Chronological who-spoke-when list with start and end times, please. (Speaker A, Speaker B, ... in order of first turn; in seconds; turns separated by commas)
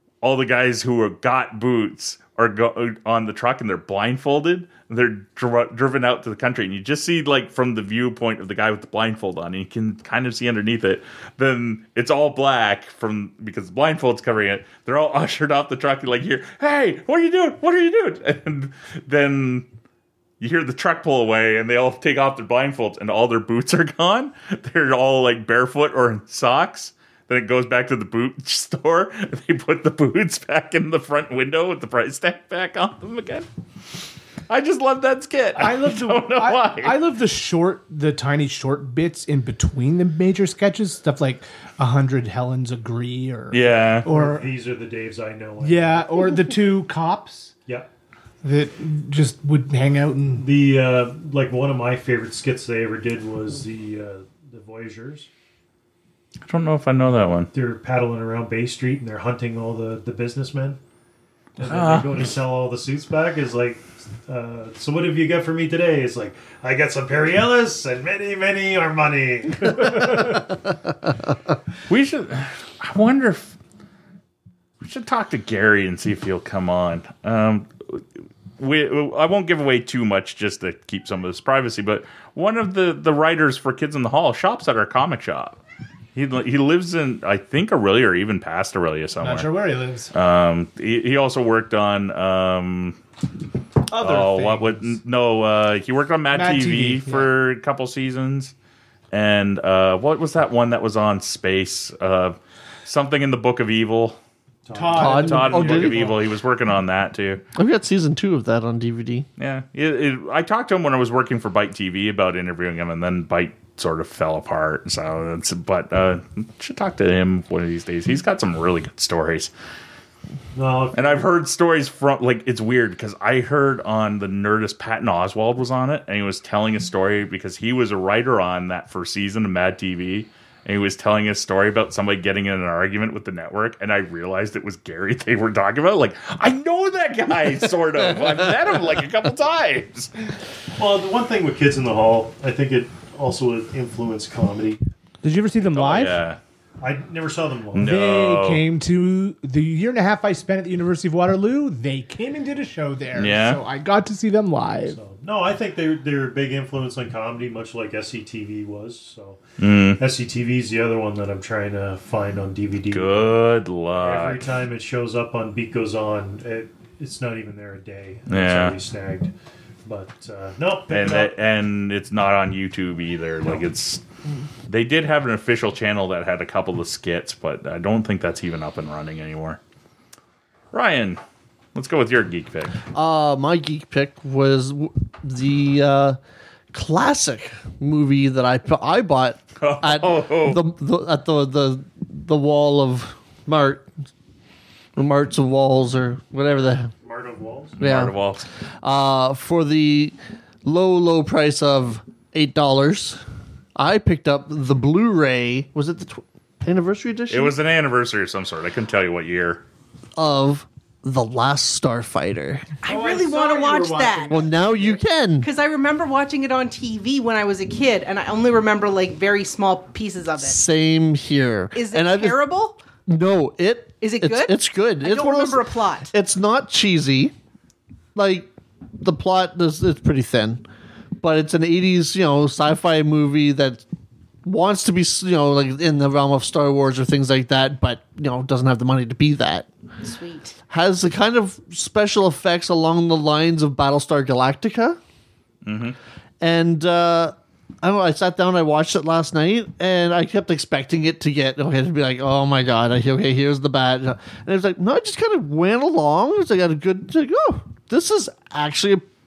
Speaker A: 0.2-19.7, Speaker A: 20.4-33.5, Speaker A: 34.5-37.0, Speaker B: 35.6-44.5, Speaker A: 43.5-44.1, Speaker C: 44.1-46.4, Speaker B: 45.6-47.5, Speaker B: 48.4-50.5, Speaker C: 50.3-55.3, Speaker A: 56.5-57.5, Speaker C: 57.5-60.8, Speaker C: 61.6-70.6, Speaker A: 61.6-62.3, Speaker A: 71.9-73.6, Speaker A: 74.8-78.0, Speaker A: 78.6-85.6, Speaker A: 86.2-89.5, Speaker B: 89.2-90.1, Speaker A: 90.1-93.0, Speaker B: 93.9-95.0, Speaker A: 93.9-98.5, Speaker B: 96.3-97.3, Speaker A: 99.1-104.2, Speaker C: 104.7-106.1, Speaker B: 104.7-106.1, Speaker D: 104.9-106.1, Speaker A: 105.1-107.4, Speaker D: 107.6-109.3, Speaker A: 109.4-119.5, Speaker C: 120.5-121.3, Speaker A: 120.9-140.2, Speaker C: 140.8-144.8, Speaker B: 145.2-146.2, Speaker A: 145.7-146.4, Speaker C: 146.8-147.9, Speaker A: 147.7-148.7, Speaker B: 147.8-155.0, Speaker A: 153.2-153.6, Speaker C: 154.8-159.4, Speaker A: 159.6-160.0, Speaker C: 160.0-163.4, Speaker A: 162.9-164.5, Speaker C: 163.9-169.3, Speaker A: 168.3-168.8, Speaker C: 169.8-171.3, Speaker A: 170.9-174.0, Speaker A: 174.7-179.6, Speaker A: 180.7-181.2, Speaker A: 181.8-182.8, Speaker D: 182.9-186.2, Speaker D: 186.7-193.9, Speaker A: 189.6-190.7, Speaker D: 195.0-196.9, Speaker C: 197.0-197.8, Speaker D: 197.8-198.2, Speaker A: 197.8-198.5, Speaker D: 198.8-203.2, Speaker D: 203.8-207.6, Speaker A: 207.3-209.6, Speaker D: 210.2-212.7, Speaker E: 212.8-214.6, Speaker B: 212.9-214.7, Speaker D: 214.3-215.5, Speaker E: 215.4-220.6, Speaker D: 220.4-222.4, Speaker E: 221.8-222.8, Speaker D: 223.1-227.3, Speaker E: 224.0-226.1, Speaker D: 228.2-230.6, Speaker D: 231.2-233.8, Speaker D: 234.4-239.7, Speaker E: 240.0-240.6, Speaker D: 240.7-245.0, Speaker A: 245.7-246.0, Speaker D: 246.4-259.1